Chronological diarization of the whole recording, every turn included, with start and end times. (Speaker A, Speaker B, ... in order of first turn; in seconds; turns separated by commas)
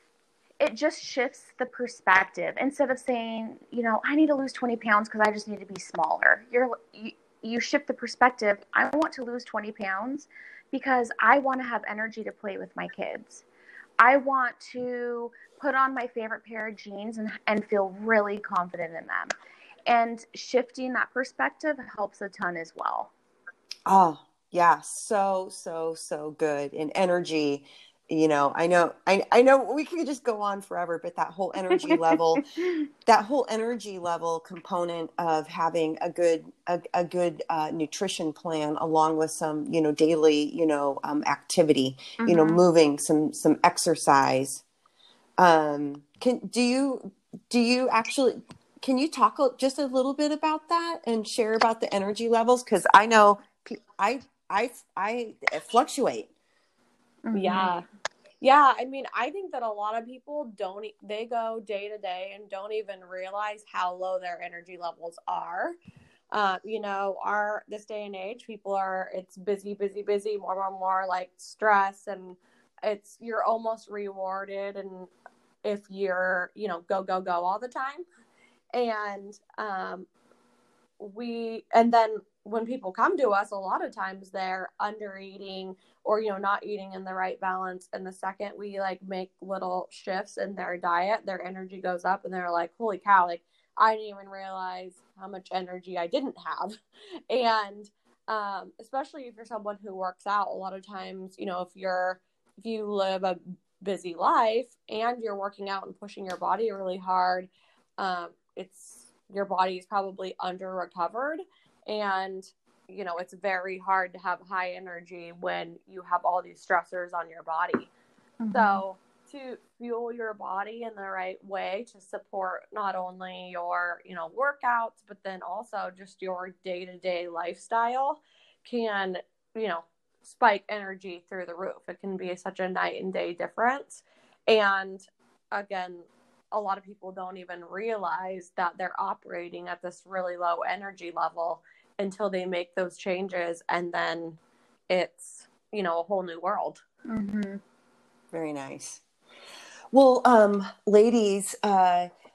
Speaker A: 0.6-13.4, Speaker A: 14.0-19.3, Speaker A: 19.9-23.1, Speaker B: 23.9-32.5, Speaker B: 33.0-44.6, Speaker A: 42.2-42.6, Speaker B: 45.4-56.3, Speaker A: 57.2-57.7, Speaker C: 57.3-57.8, Speaker C: 58.4-65.7, Speaker C: 66.3-75.1, Speaker C: 75.6-78.0, Speaker C: 78.7-80.1, Speaker C: 81.0-96.8, Speaker C: 97.3-117.9, Speaker A: 118.4-118.8, Speaker C: 118.5-144.4, Speaker C: 144.9-146.8, Speaker A: 147.1-147.6, Speaker B: 148.3-149.0, Speaker B: 149.9-152.1